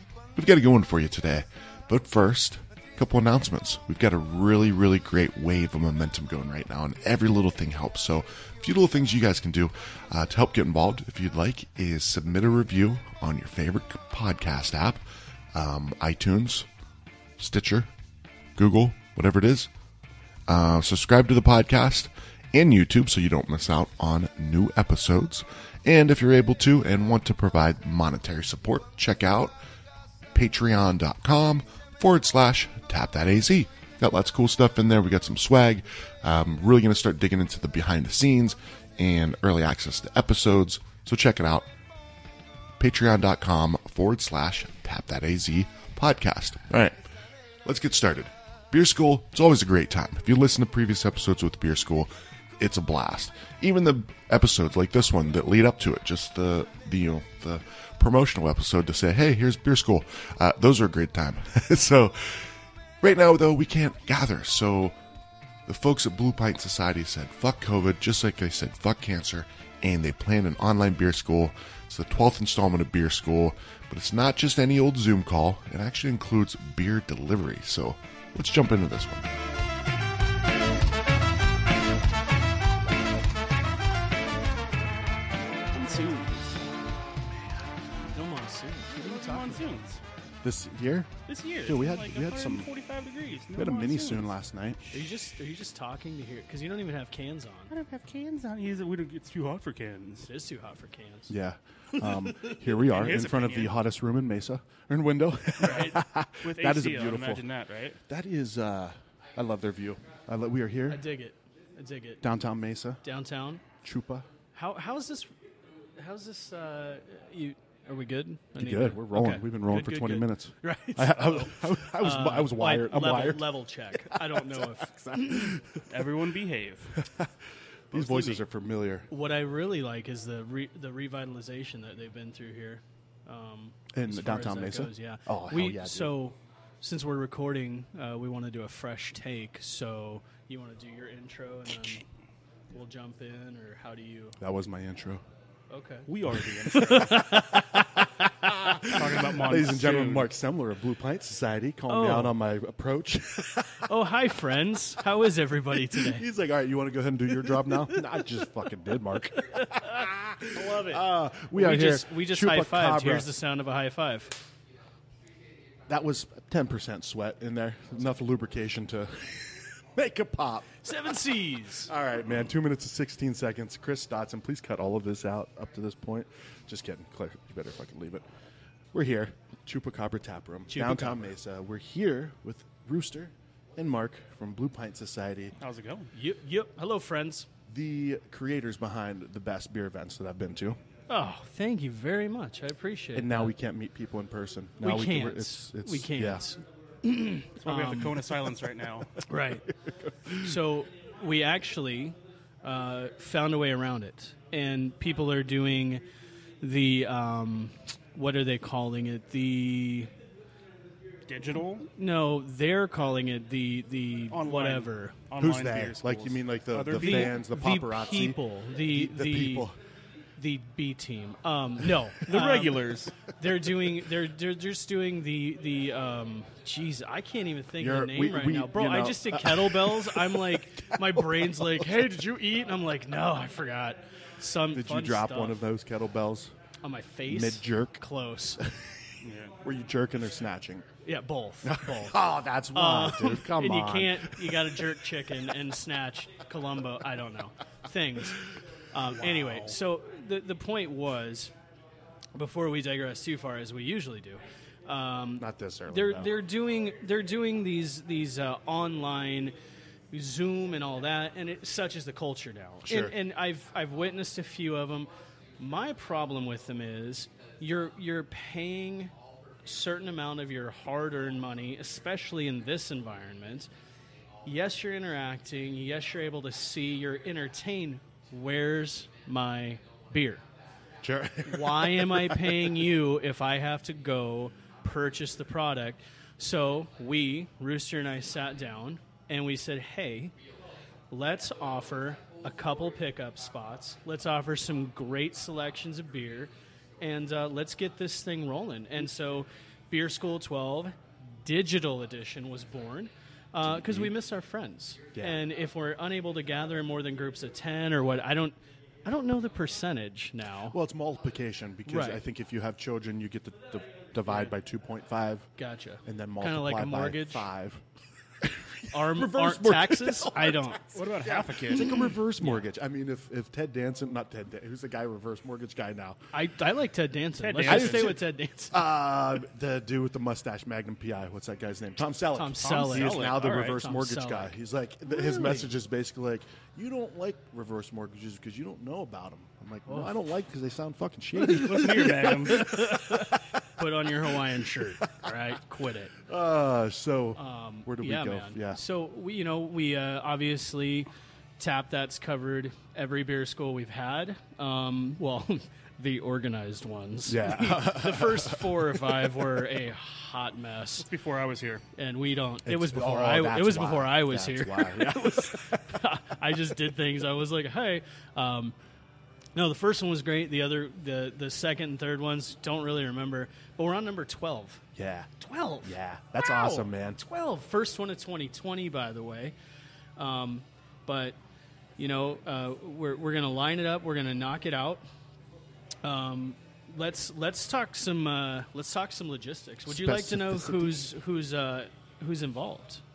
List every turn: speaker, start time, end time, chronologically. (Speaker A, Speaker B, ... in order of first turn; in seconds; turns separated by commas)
Speaker A: 0.4-15.0, Speaker A: 15.5-16.7, Speaker A: 17.4-17.9, Speaker A: 18.6-19.7, Speaker A: 20.5-29.5, Speaker A: 30.3-41.7, Speaker A: 42.8-47.0, Speaker A: 47.6-62.5, Speaker A: 63.0-65.0, Speaker A: 65.7-79.4, Speaker B: 85.7-86.6, Speaker C: 88.1-89.9, Speaker B: 88.9-90.0, Speaker D: 90.4-92.7, Speaker B: 91.3-94.3, Speaker D: 93.5-94.8, Speaker C: 94.9-97.7, Speaker B: 97.7-100.3, Speaker C: 100.2-101.3, Speaker D: 101.3-107.5, Speaker C: 102.0-102.5, Speaker B: 102.9-103.7, Speaker C: 105.6-106.0, Speaker B: 105.6-108.0, Speaker D: 108.1-111.0, Speaker C: 110.9-112.3, Speaker D: 112.2-113.0, Speaker C: 113.0-113.6, Speaker D: 113.8-114.3, Speaker C: 114.5-115.3, Speaker C: 116.0-125.5, Speaker D: 118.6-125.8, Speaker B: 125.9-127.0, Speaker D: 127.9-129.1, Speaker B: 128.0-128.4, Speaker C: 129.1-142.0, Speaker D: 133.9-136.2, Speaker C: 142.7-144.4, Speaker D: 144.4-145.2, Speaker C: 145.7-148.5, Speaker B: 146.1-147.3, Speaker D: 147.5-153.9, Speaker B: 148.9-150.3, Speaker C: 151.9-152.4, Speaker C: 153.8-156.2, Speaker D: 155.9-163.3, Speaker B: 160.6-160.9, Speaker C: 161.5-164.4, Speaker D: 165.9-170.8, Speaker C: 170.8-171.9, Speaker D: 171.8-178.2, Speaker D: 178.9-185.6, Speaker C: 180.7-181.3, Speaker B: 185.6-186.1, Speaker C: 186.1-187.5, Speaker D: 187.7-190.8, Speaker C: 191.1-193.5, Speaker D: 193.1-196.5, Speaker C: 194.8-198.2, Speaker B: 197.6-199.1, Speaker C: 199.3-199.7, Speaker D: 199.8-200.5, Speaker C: 200.4-206.0, Speaker C: 206.6-210.1, Speaker B: 211.3-211.9, Speaker C: 212.0-215.2, Speaker B: 214.3-217.4, Speaker D: 215.4-219.8, Speaker C: 216.9-219.7, Speaker C: 220.4-235.6, Speaker B: 222.3-223.2, Speaker D: 227.8-232.1, Speaker D: 234.7-236.5, Speaker C: 236.8-238.6, Speaker D: 237.3-238.0, Speaker D: 238.6-240.9, Speaker B: 239.2-239.6, Speaker C: 241.1-242.2, Speaker D: 241.6-244.6, Speaker C: 242.7-251.5, Speaker B: 249.2-249.8, Speaker C: 252.4-259.5, Speaker D: 255.4-256.4, Speaker C: 260.1-269.1, Speaker D: 262.8-263.2, Speaker C: 269.7-273.7, Speaker C: 274.4-280.4, Speaker D: 281.0-282.8, Speaker C: 281.4-290.3, Speaker C: 291.1-310.8, Speaker D: 303.6-304.1, Speaker D: 305.1-305.4, Speaker D: 310.7-315.5, Speaker C: 311.9-312.2, Speaker C: 315.6-317.5, Speaker D: 316.0-317.8, Speaker D: 318.4-326.2, Speaker C: 318.9-320.9, Speaker B: 320.9-321.9, Speaker C: 321.8-322.6, Speaker C: 326.3-328.7, Speaker B: 327.4-328.2, Speaker D: 327.6-343.8, Speaker C: 332.4-334.6, Speaker B: 332.6-333.8, Speaker C: 335.1-335.7, Speaker C: 339.9-340.1, Speaker B: 341.4-342.7, Speaker C: 342.5-346.1, Speaker D: 346.3-348.8, Speaker C: 347.4-361.1, Speaker D: 357.3-358.9, Speaker B: 361.0-361.8, Speaker C: 362.0-368.8, Speaker D: 362.6-366.0, Speaker C: 369.6-374.8, Speaker D: 375.0-375.3, Speaker C: 375.4-379.5, Speaker D: 375.8-377.2, Speaker C: 380.2-381.4, Speaker C: 382.0-385.0, Speaker C: 386.0-393.0, Speaker D: 389.9-391.1